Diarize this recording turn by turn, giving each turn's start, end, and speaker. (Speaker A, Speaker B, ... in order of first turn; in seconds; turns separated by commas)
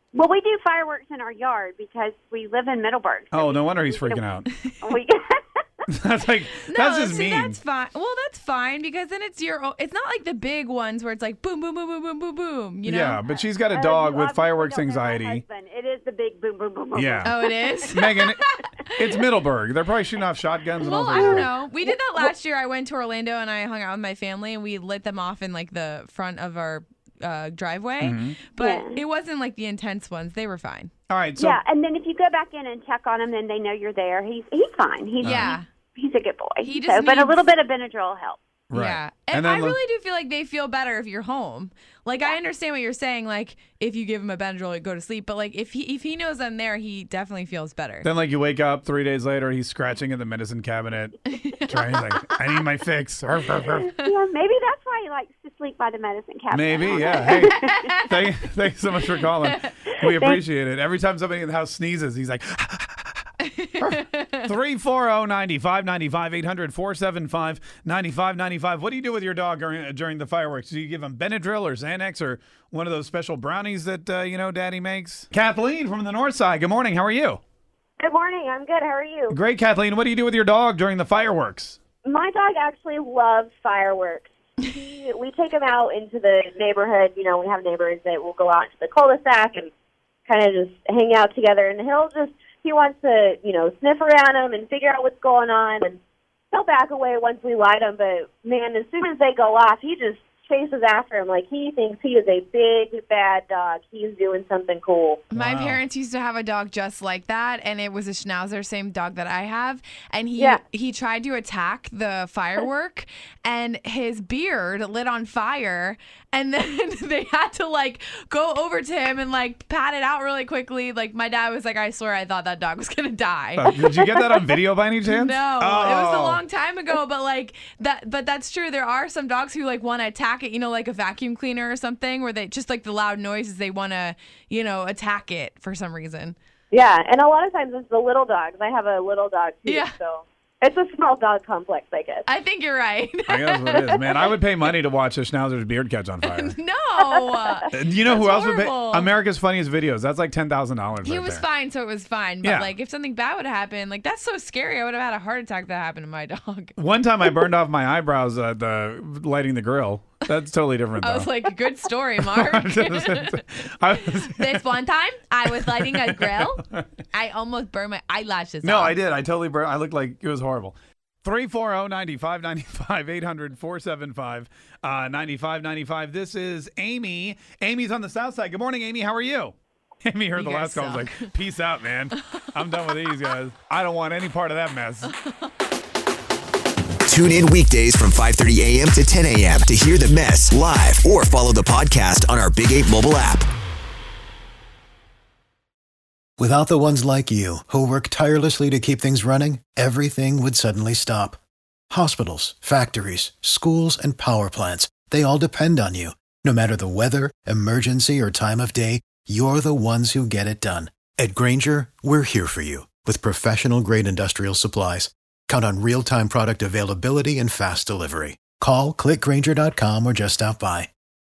Speaker A: 0.1-5.6, Speaker B: 3.3-4.5, Speaker C: 4.5-4.8, Speaker B: 5.9-7.6, Speaker C: 6.7-13.2, Speaker B: 12.9-15.4, Speaker A: 13.2-18.1, Speaker B: 16.9-17.4, Speaker C: 17.2-19.2, Speaker B: 17.9-21.6, Speaker C: 20.8-30.9, Speaker A: 20.8-22.4, Speaker B: 28.0-28.5, Speaker A: 28.6-29.0, Speaker B: 31.1-31.6, Speaker A: 31.4-38.4, Speaker B: 35.2-35.5, Speaker C: 35.2-35.7, Speaker C: 36.6-37.5, Speaker B: 38.7-39.8, Speaker C: 38.7-48.1, Speaker B: 48.0-51.2, Speaker C: 51.3-52.4, Speaker B: 51.7-54.0, Speaker A: 53.6-58.2, Speaker B: 56.5-77.4, Speaker C: 57.5-58.1, Speaker C: 59.2-59.8, Speaker A: 59.9-60.4, Speaker C: 63.5-64.5, Speaker D: 78.0-79.4, Speaker B: 79.3-81.8, Speaker D: 82.0-89.7, Speaker D: 90.3-96.0, Speaker D: 96.5-105.2, Speaker B: 105.3-105.8, Speaker C: 105.4-136.4, Speaker B: 123.6-126.4, Speaker D: 136.7-142.2, Speaker C: 139.7-139.9, Speaker C: 142.3-143.8, Speaker B: 143.3-146.6, Speaker D: 143.7-144.2, Speaker C: 146.2-149.1, Speaker D: 147.0-147.6, Speaker B: 147.7-151.4, Speaker C: 151.0-156.8, Speaker B: 152.4-152.8, Speaker B: 156.8-161.4, Speaker C: 161.0-169.0, Speaker B: 162.2-164.9, Speaker B: 165.4-166.8, Speaker B: 168.6-185.2, Speaker C: 180.4-181.3, Speaker C: 185.0-185.6, Speaker E: 187.1-193.5, Speaker F: 196.4-201.4, Speaker F: 201.9-220.9